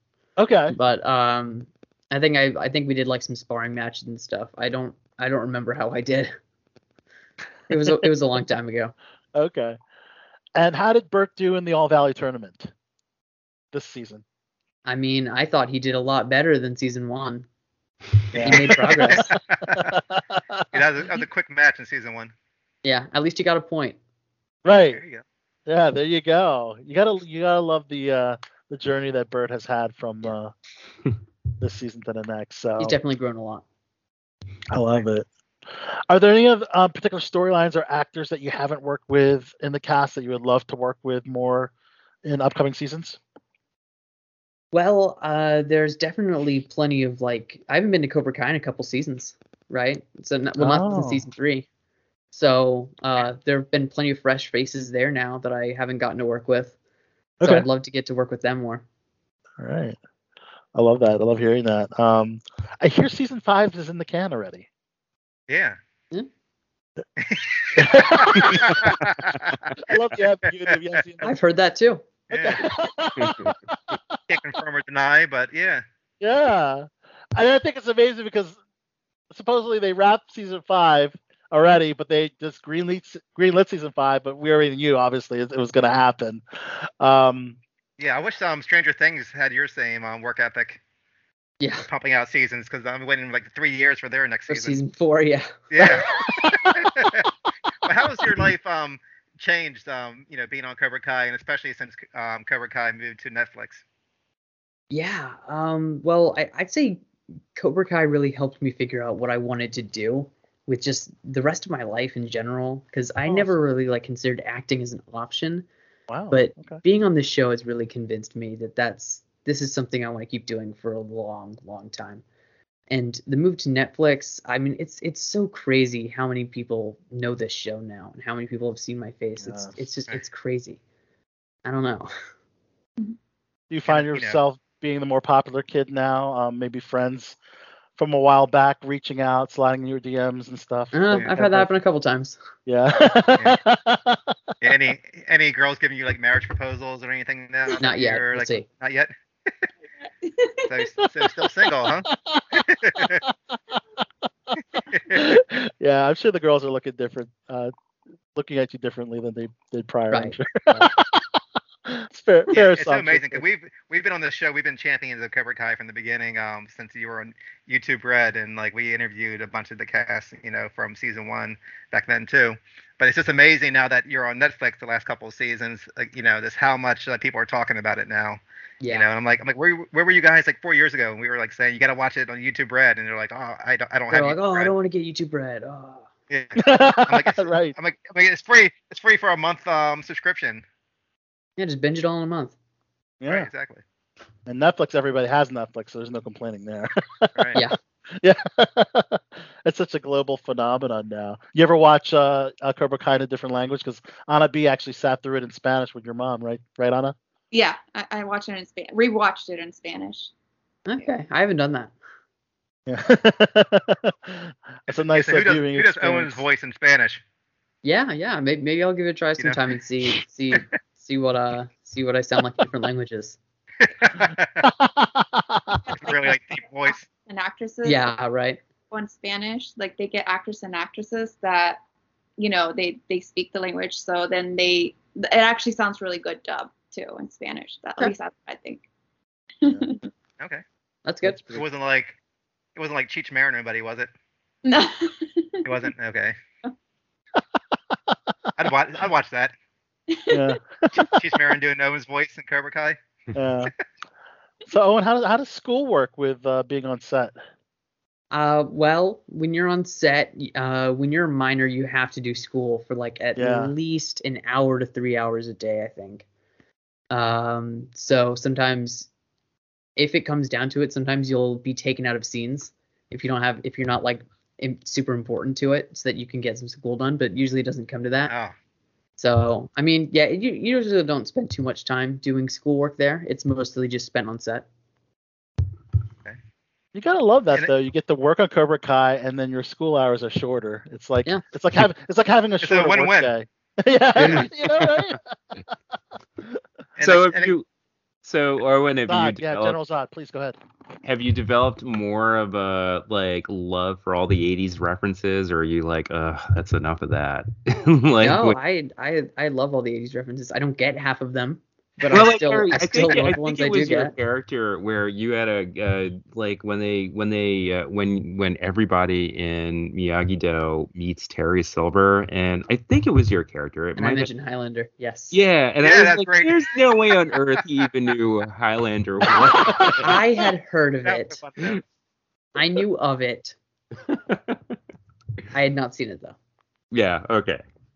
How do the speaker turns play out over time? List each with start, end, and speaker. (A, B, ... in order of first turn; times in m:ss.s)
0:00.4-0:00.7 A
0:00.7-0:06.3 B
0:07.7-0:08.9 B
0:09.3-0:09.8 A
0:10.6-0:12.7 A
0:13.7-0:14.2 A
0:14.8-0:17.4 B
0:18.3-0:19.1 A
0:18.4-0:19.3 B
0:18.4-0:19.9 C
0:19.7-0:20.6 A
0:20.7-0:22.3 C
0:22.8-0:24.0 B
0:24.6-0:25.0 A
0:24.9-0:25.2 C
0:25.7-0:30.5 A
0:31.6-0:33.0 A
0:32.8-0:33.6 B
0:34.7-0:41.7 A
0:42.2-0:43.2 A
0:44.7-0:51.6 B
0:50.6-0:51.2 A
0:52.3-0:56.7 B
0:57.4-0:58.8 B
0:59.6-1:00.0 A
1:00.7-1:04.7 A
1:05.5-1:05.8 C
1:07.2-1:09.7 C
1:07.7-1:08.9 A
1:09.8-1:11.3 A
1:11.2-1:12.0 B
1:12.3-1:12.6 C
1:12.3-1:14.2 A
1:13.2-1:13.5 D
1:14.3-1:15.8 C
1:16.2-1:18.6 A
1:19.3-1:27.6 A
1:28.0-1:30.8 C
1:31.6-1:31.9 B
1:31.9-1:34.8 C
1:34.5-1:35.5 B
1:35.7-1:37.3 C
1:36.2-1:36.8 A
1:37.8-1:43.8 C
1:44.9-1:47.0 B
1:47.5-1:55.6 B
1:53.3-1:53.5 A
1:56.1-1:56.8 A
1:56.3-2:02.2 B
2:02.9-2:10.8 B
2:09.4-2:09.8 A
2:11.6-2:12.1 B
2:13.7-2:17.4 A
2:13.9-2:14.4 C
2:18.0-2:21.7 A
2:20.9-2:22.4 B
2:22.7-2:24.3 A
2:22.9-2:23.6 C
2:24.6-2:29.7 C
2:27.8-2:28.6 B
2:30.2-2:30.7 E
2:30.7-2:33.2 C
2:31.0-2:31.5 A
2:32.1-2:33.3 A
2:34.9-2:35.2 C
2:35.1-2:37.7 A
2:38.3-2:43.4 A
2:40.1-2:40.9 B
2:42.5-3:04.7 C
2:58.8-2:59.1 B
3:04.1-3:06.0 B
3:06.3-3:10.6 C
3:06.6-3:07.7 A
3:11.6-3:12.5 B
3:13.2-3:13.5 A
3:13.3-3:13.8 C
3:14.5-3:27.2 A
3:27.5-3:30.3 E
3:30.8-3:31.9 B
3:32.9-3:36.4 A
3:34.9-3:37.2 C
3:37.8-3:43.4 B
3:43.8-3:44.6 C
3:44.6-3:45.8 A
3:45.8-3:48.1 E
3:45.9-3:47.0 C
3:47.8-3:48.6 B
3:48.9-3:51.8 E
3:52.4-3:58.8 E
3:59.6-4:00.0 E
3:59.6-3:59.9 A
4:01.0-4:01.6 B
4:01.5-4:02.2 C
4:02.8-4:04.1 C
4:04.6-4:05.9 E
4:05.6-4:06.3 C
4:08.6-4:09.5 C
4:10.1-4:10.4 E
4:10.3-4:11.2 A
4:11.1-4:13.0 C
4:13.3-4:13.7 A
4:14.7-4:17.4 A
4:18.3-4:26.2 B
4:23.4-4:23.7 A
4:27.1-4:29.1 B
4:30.0-4:38.3 B
4:38.3-4:38.5 C
4:39.2-4:44.6 B
4:46.9-4:55.6 A
4:52.6-4:53.3 C
4:54.2-4:54.5 B
4:54.7-4:55.1 D
4:57.0-4:57.5 C
4:57.0-4:57.6 D
4:58.2-4:59.8 D
4:59.0-5:00.6 A
5:01.0-5:08.6 D
5:08.2-5:14.1 B
5:12.1-5:24.3 D
5:24.0-5:25.4 B
5:25.3-5:30.2 D
5:25.8-5:26.7 C
5:30.0-5:31.4 B
5:31.0-5:31.8 C
5:32.5-5:33.6 B
5:34.1-5:34.7 D
5:35.5-5:36.4 B
5:36.9-5:37.6 D